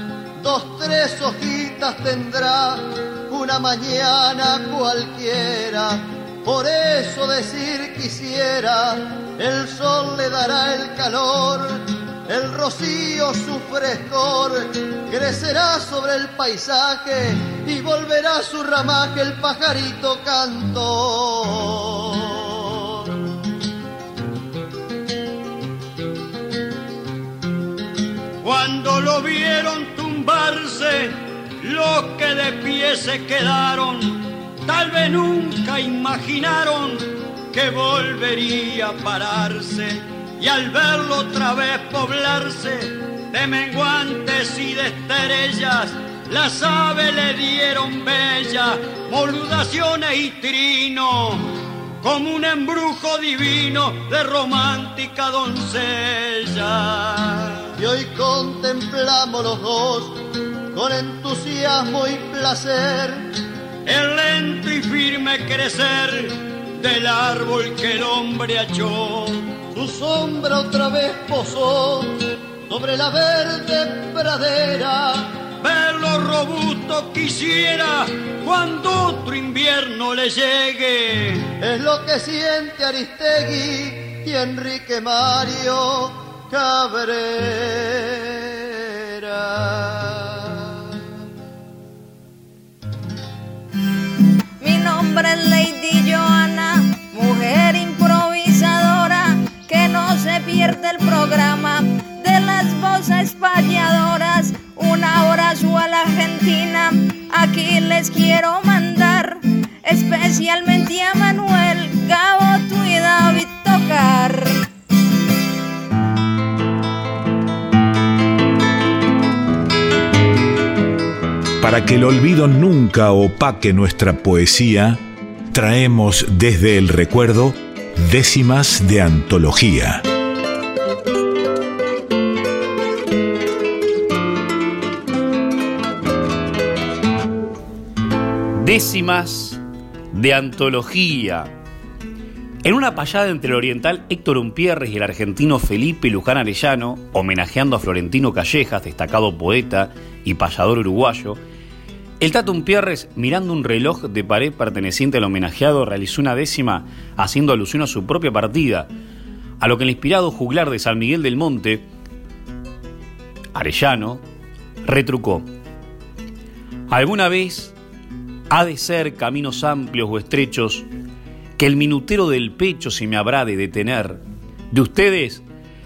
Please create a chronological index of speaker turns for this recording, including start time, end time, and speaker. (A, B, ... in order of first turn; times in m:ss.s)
0:00.4-0:23.1 A
0:28.4-0:51.5 B
0:52.0-0:57.6 B
0:57.8-1:00.2 A
1:00.7-1:03.2 A
1:03.8-1:09.4 B
1:09.7-1:15.3 A
1:15.6-1:21.5 B
1:21.6-1:30.8 A
1:34.6-1:54.6 C
2:01.6-2:05.0 D
2:05.5-2:10.0 D
2:18.5-2:19.6 E
2:20.1-2:21.5 E
2:22.6-2:31.4 E
2:32.2-2:38.9 E
2:39.6-2:41.8 E
2:43.5-2:44.2 E
2:44.8-2:45.5 E
2:46.9-2:47.7 E
2:48.5-2:50.8 E
2:51.6-2:55.4 E